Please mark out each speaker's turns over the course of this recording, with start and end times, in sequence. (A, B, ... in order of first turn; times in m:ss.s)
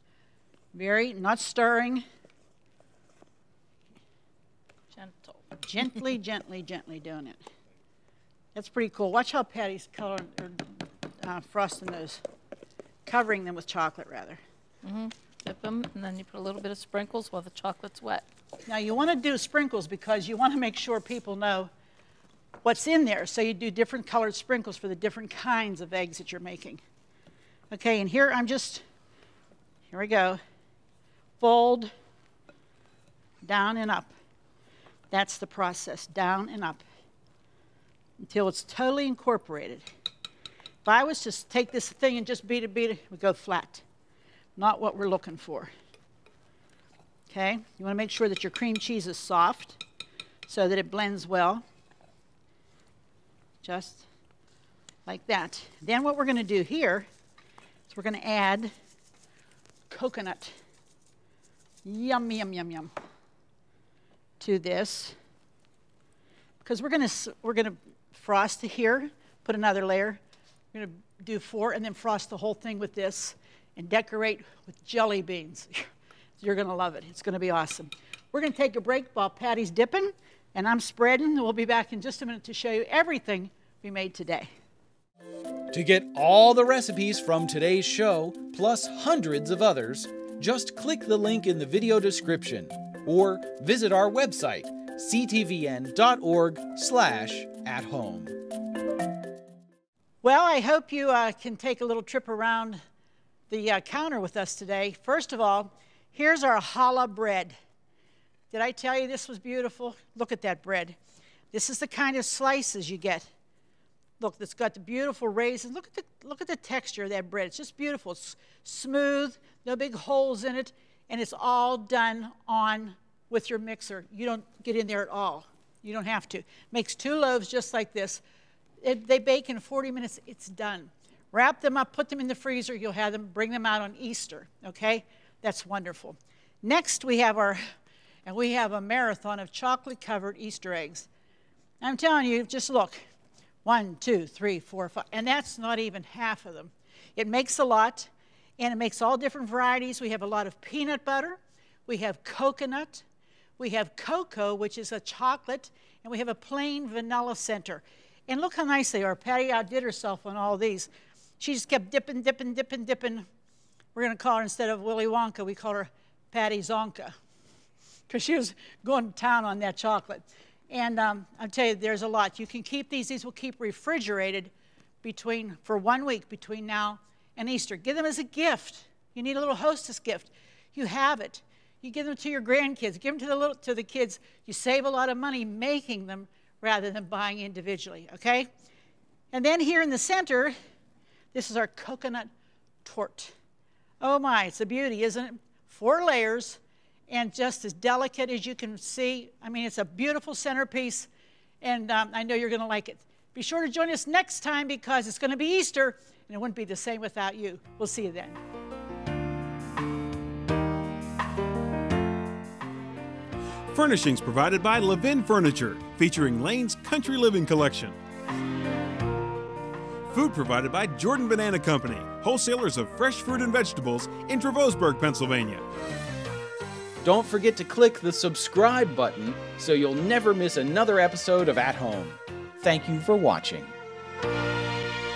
0:00.7-0:02.0 A
0:04.9-0:05.4 B
0:05.6-0:07.4 A
0:08.5-0:12.2 A
0:13.0-0:14.4 A
0:14.8-0:18.2 B
0:18.6-0:21.7 A
0:22.6-0:26.8 A
0:27.7-0:28.8 A
0:29.9-0:30.4 A
0:31.4-0:31.9 A
0:33.4-0:34.1 A
0:35.1-0:36.8 A
0:38.2-0:39.8 A
0:40.8-0:43.8 A
0:44.6-0:45.7 A
0:47.3-0:49.8 A
0:50.5-0:51.6 A
0:53.6-0:54.0 A
0:55.0-0:57.1 A
0:57.9-0:58.7 A
0:59.9-1:00.5 A
1:01.8-1:02.9 A
1:04.4-1:05.1 A
1:06.6-1:10.2 A
1:10.7-1:15.9 A
1:16.4-1:24.5 A
1:25.7-1:38.4 C
1:40.2-1:42.8 A
1:43.5-1:47.5 A
1:48.5-1:51.0 A
1:51.5-1:53.3 A
1:54.2-2:08.2 A
2:08.8-2:17.6 A
2:18.2-2:21.1 A
2:21.8-2:23.0 A
2:23.6-2:33.0 A
2:33.6-2:43.2 A
2:43.9-2:47.1 A
2:48.1-2:54.5 A
2:55.0-3:08.5 A
3:09.3-3:10.5 A
3:11.3-3:12.3 A
3:12.8-3:13.3 A
3:14.0-3:21.1 A
3:21.6-3:28.4 A
3:33.7-3:38.0 D
3:40.1-3:45.6 D
3:47.0-3:53.7 C